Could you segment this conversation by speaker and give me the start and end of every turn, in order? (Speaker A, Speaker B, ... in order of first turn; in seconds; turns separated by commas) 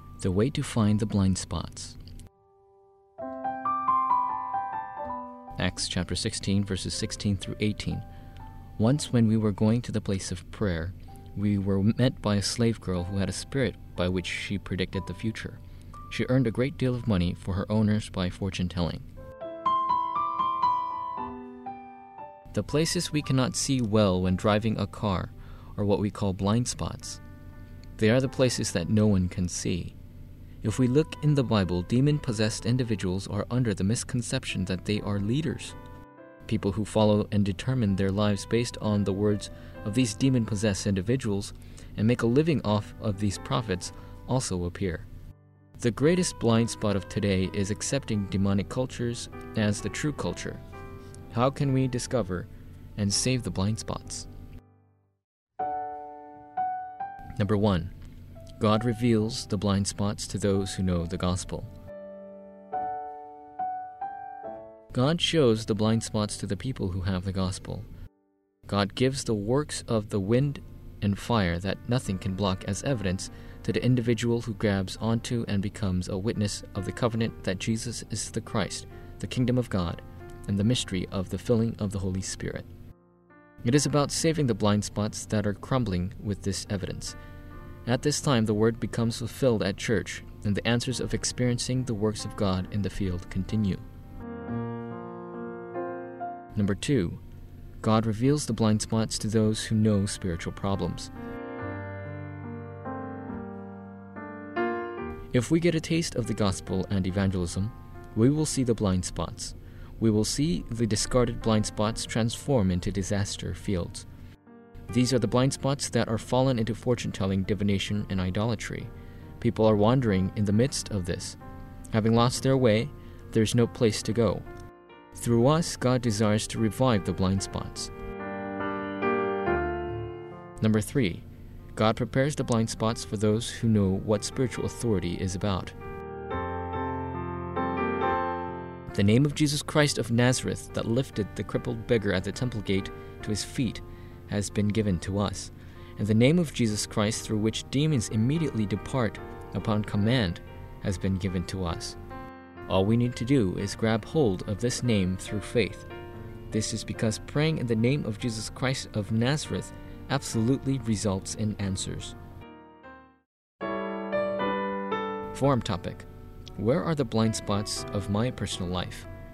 Speaker A: 0.2-2.0, Speaker A: 5.6-8.0, Speaker A: 8.8-15.6, Speaker A: 16.1-19.1, Speaker A: 22.5-27.2, Speaker A: 28.0-29.9, Speaker A: 30.6-35.8, Speaker A: 36.5-45.1, Speaker A: 45.8-50.6, Speaker A: 51.3-54.3, Speaker A: 57.4-57.9, Speaker A: 58.6-61.7, Speaker A: 64.9-67.9, Speaker A: 68.7-82.7, Speaker A: 83.6-87.2, Speaker A: 87.8-93.8, Speaker A: 96.5-97.2, Speaker A: 97.8-101.1, Speaker A: 105.3-114.1, Speaker A: 114.9-121.4, Speaker A: 121.9-124.5, Speaker A: 125.2-127.9, Speaker A: 130.6-135.8, Speaker A: 138.9-152.0, Speaker A: 152.7-155.9, Speaker A: 156.5-162.2, Speaker A: 165.3-169.1